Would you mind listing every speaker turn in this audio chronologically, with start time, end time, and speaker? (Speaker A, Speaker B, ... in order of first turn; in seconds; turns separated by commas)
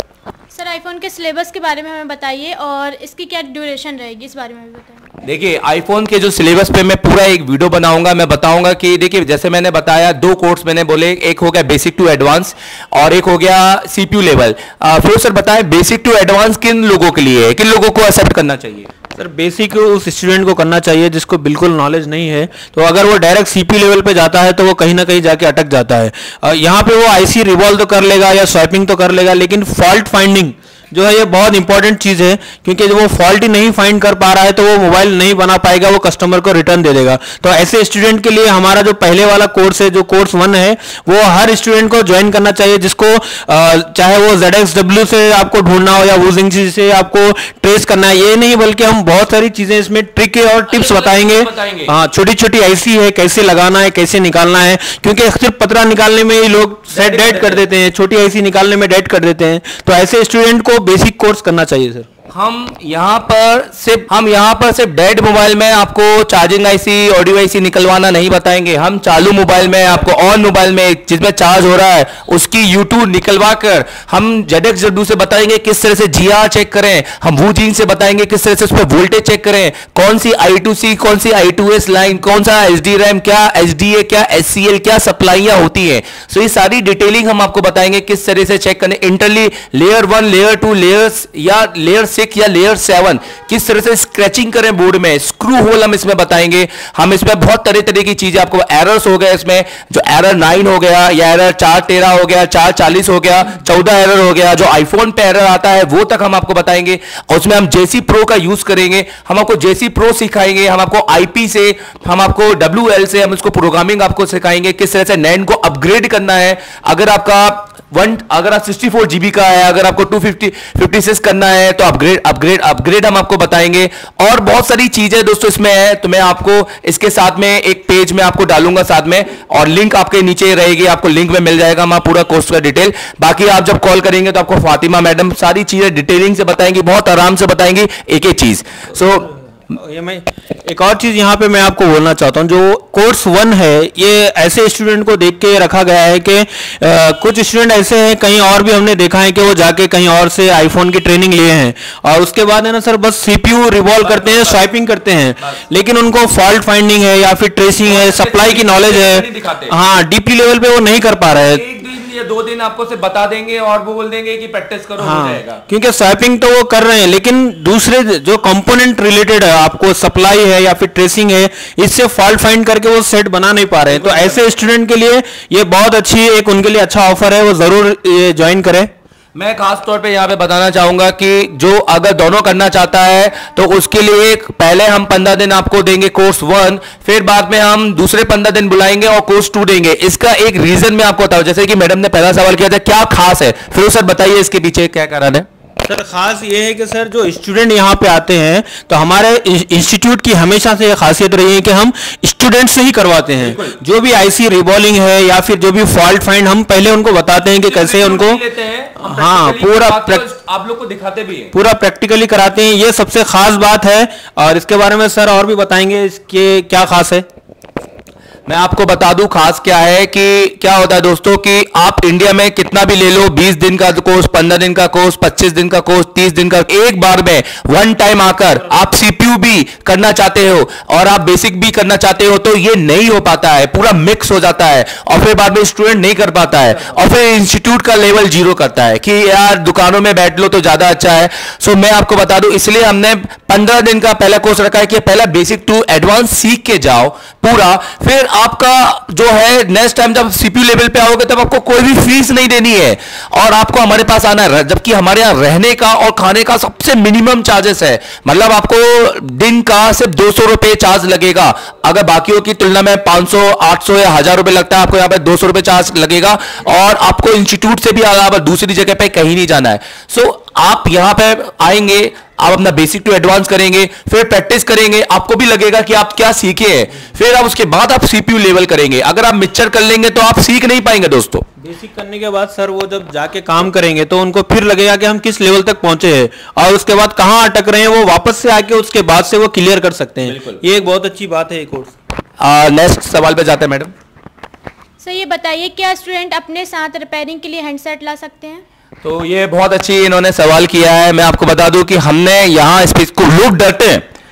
Speaker A: 0.5-5.1, Speaker B: 5.2-18.9, Speaker C: 19.2-62.1, Speaker B: 50.7-51.9, Speaker B: 56.9-57.6, Speaker B: 62.3-139.3, Speaker C: 139.7-161.7, Speaker B: 154.0-154.7, Speaker B: 157.8-159.8, Speaker B: 161.4-165.6, Speaker C: 165.0-178.9, Speaker B: 173.9-174.4, Speaker B: 179.3-195.5, Speaker C: 195.8-208.4, Speaker B: 203.4-203.8, Speaker B: 207.6-211.5, Speaker C: 209.0-210.2, Speaker C: 211.5-217.3, Speaker B: 218.5-281.4, Speaker C: 281.6-292.0, Speaker B: 290.2-290.6, Speaker B: 292.4-293.9, Speaker A: 295.0-298.6, Speaker B: 299.0-304.0